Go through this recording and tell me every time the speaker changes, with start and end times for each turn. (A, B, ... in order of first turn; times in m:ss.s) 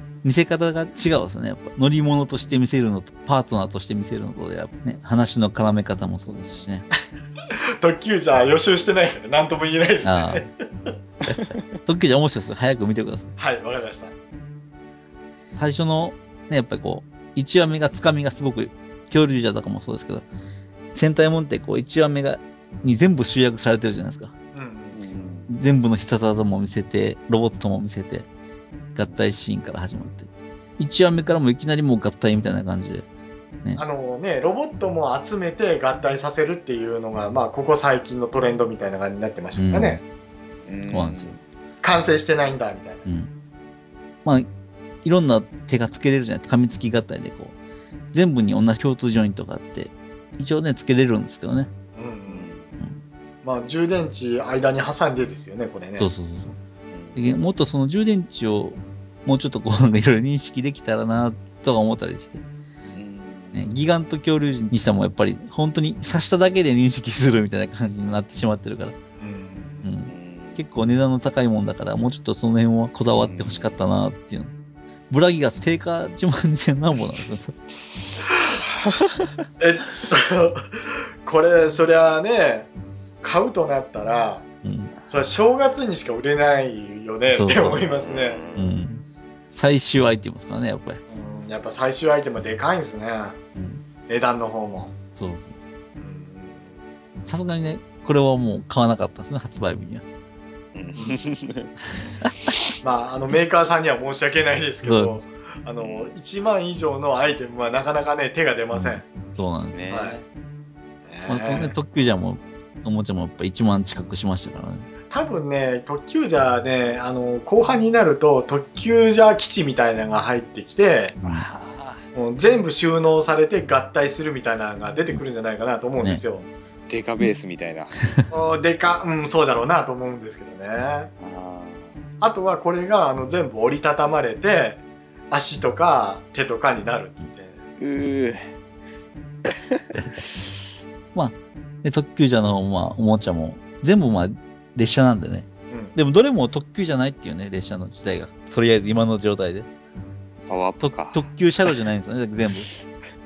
0:00.2-0:06.9 A
0:06.3-0:06.7 B
0:07.8-0:10.9 C
0:10.0-0:10.4 A
0:11.2-0:13.4 A
0:13.4-0:14.1 C
0:15.6-0:20.3 A
0:20.9-0:24.3 A
0:24.5-0:25.0 C
0:24.9-0:25.5 B
0:25.5-0:28.3 A
0:28.9-0:33.1 A
0:33.8-0:40.0 C
0:39.6-0:40.0 A
0:40.6-0:41.4 B
0:40.9-0:41.4 A
0:41.8-0:43.0 C
0:45.0-0:47.6 A
0:48.1-0:51.7 A
0:52.0-0:52.5 C
0:52.3-0:52.8 B
0:53.4-0:56.1 C
0:56.0-0:56.6 A
0:56.9-0:57.3 B
0:57.2-1:02.4 A
1:02.9-1:03.7 B
1:03.5-1:09.0 A
1:09.2-1:09.9 C
1:09.8-1:14.5 A
1:10.1-1:10.6 B
1:13.2-1:13.8 B
1:15.1-1:17.6 A
1:19.6-1:22.7 C
1:23.2-1:24.5 C
1:24.6-1:24.9 A
1:25.1-1:28.4 C
1:27.3-1:27.8 A
1:27.8-1:28.7 B
1:28.6-1:31.0 A
1:31.1-1:33.4 C
1:33.6-1:33.8 A
1:34.1-1:34.9 C
1:35.2-1:35.6 A
1:36.0-1:36.7 C
1:37.3-1:40.0 A
1:40.7-1:41.7 B
1:42.8-1:49.0 C
1:44.8-1:45.2 A
1:45.8-1:46.1 B
1:48.7-1:49.9 A
1:49.7-1:50.2 B
1:49.9-1:50.2 C
1:51.1-1:51.8 C
1:51.3-1:54.9 A
1:55.1-2:01.2 C
2:01.2-2:01.5 A
2:01.3-2:02.0 B
2:02.2-2:06.4 C
2:06.9-2:08.0 B
2:08.3-2:11.1 C
2:11.2-2:12.0 B
2:12.2-2:17.6 C
2:17.8-2:18.5 B
2:19.5-2:19.8 B
2:21.1-2:29.7 A
2:25.7-2:26.0 C
2:30.5-2:31.3 B
2:30.8-2:32.7 A